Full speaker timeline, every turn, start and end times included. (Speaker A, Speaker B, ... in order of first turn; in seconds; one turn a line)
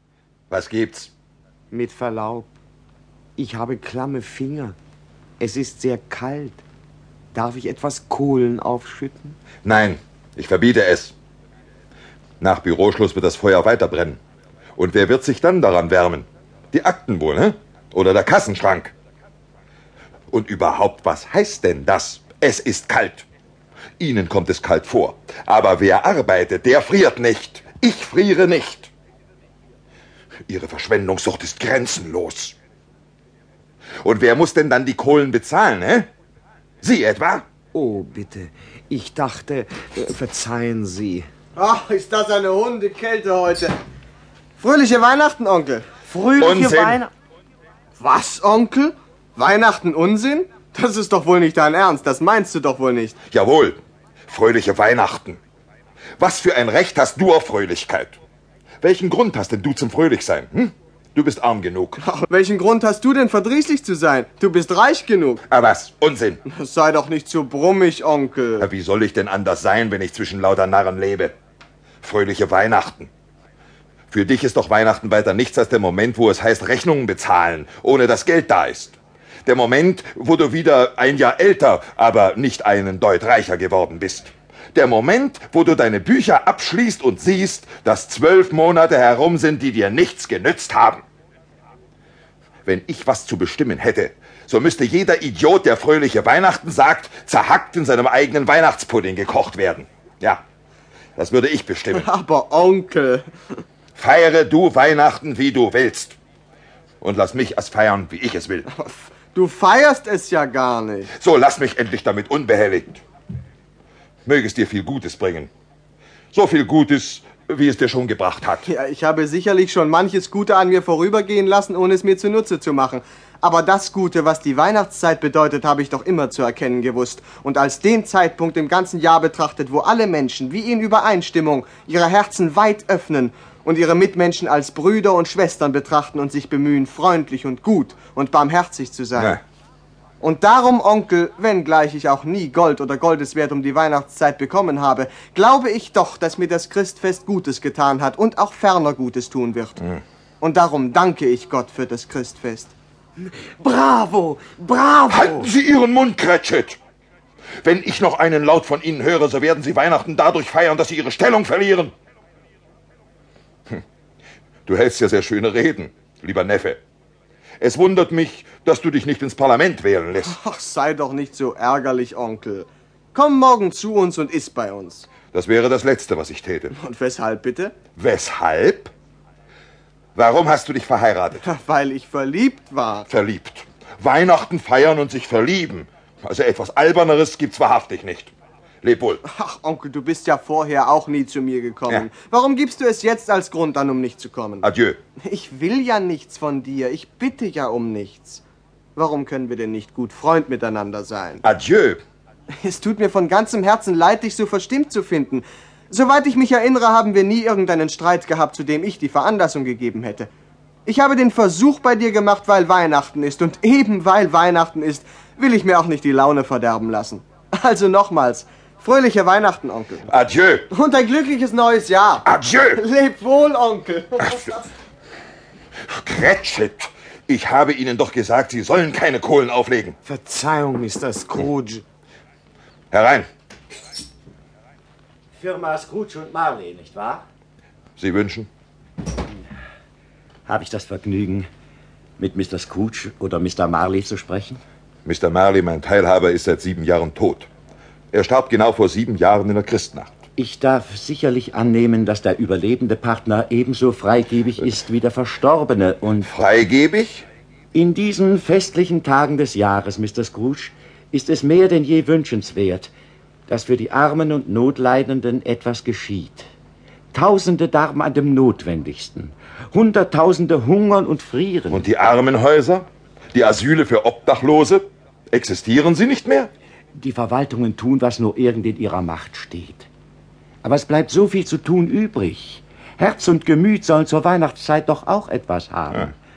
Speaker A: 0.5-1.1
Speaker B: 1.7-2.5
Speaker B: 3.4-4.8
Speaker B: 5.4-6.6
Speaker B: 7.3-9.4
Speaker A: 9.6-11.1
Speaker A: 12.4-14.2
Speaker A: 14.8-18.9
Speaker A: 20.3-23.2
Speaker A: 24.0-28.9
Speaker A: 30.5-32.5
Speaker A: 34.0-36.1
Speaker A: 36.8-37.5
Speaker B: 37.7-41.2
Speaker C: 41.5-43.8
Speaker C: 44.6-45.9
Speaker B: 46.1-47.0
Speaker A: 46.4-47.0
Speaker C: 48.0-53.2
Speaker A: 53.3-55.4
Speaker A: 56.2-58.2
Speaker A: 58.8-62.0
Speaker C: 62.0-65.4
Speaker A: 65.5-66.4
Speaker C: 66.4-68.7
Speaker A: 68.6-71.3
Speaker A: 72.0-73.1
Speaker A: 74.1-91.0
Speaker A: 92.6-100.4
Speaker A: 101.2-102.1
Speaker C: 101.9-103.3
Speaker A: 104.0-106.2
Speaker A: 107.0-108.7
Speaker C: 108.7-111.1
Speaker A: 111.2-113.0
Speaker A: 114.2-115.5
Speaker A: 116.3-118.7
Speaker C: 118.7-139.4
Speaker C: 140.2-152.7
Speaker B: 153.6-155.1
Speaker A: 155.1-156.8
Speaker A: 157.6-161.9
Speaker A: 164.7-166.8
Speaker A: 167.6-170.4
Speaker C: 170.2-175.1
Speaker A: 175.3-176.7
Speaker C: 176.7-177.8
Speaker A: 178.0-178.9
Speaker A: 180.2-181.5
Speaker C: 181.4-183.1
Speaker A: 183.1-188.3
Speaker A: 188.8-189.2
Speaker C: 189.2-194.7
Speaker A: 194.6-195.0
Speaker C: 195.2-198.4
Speaker C: 198.9-201.4
Speaker A: 201.4-202.0
Speaker C: 202.6-210.3
Speaker C: 210.8-220.1
Speaker A: 220.1-220.7
Speaker C: 220.7-224.7
Speaker A: 222.2-222.8
Speaker A: 225.9-230.0
Speaker B: 230.1-231.8
Speaker A: 232.9-233.3
Speaker D: 235.3-237.2
Speaker A: 238.0-238.5
Speaker D: 240.5-241.5
Speaker D: 242.2-244.6
Speaker A: 245.0-247.5
Speaker A: 248.1-250.1
Speaker D: 250.3-256.3
Speaker A: 256.2-257.2
Speaker D: 257.7-262.9
Speaker D: 263.5-266.5
Speaker D: 267.1-271.9
Speaker A: 271.7-276.5
Speaker D: 276.9-279.9
Speaker D: 280.6-286.1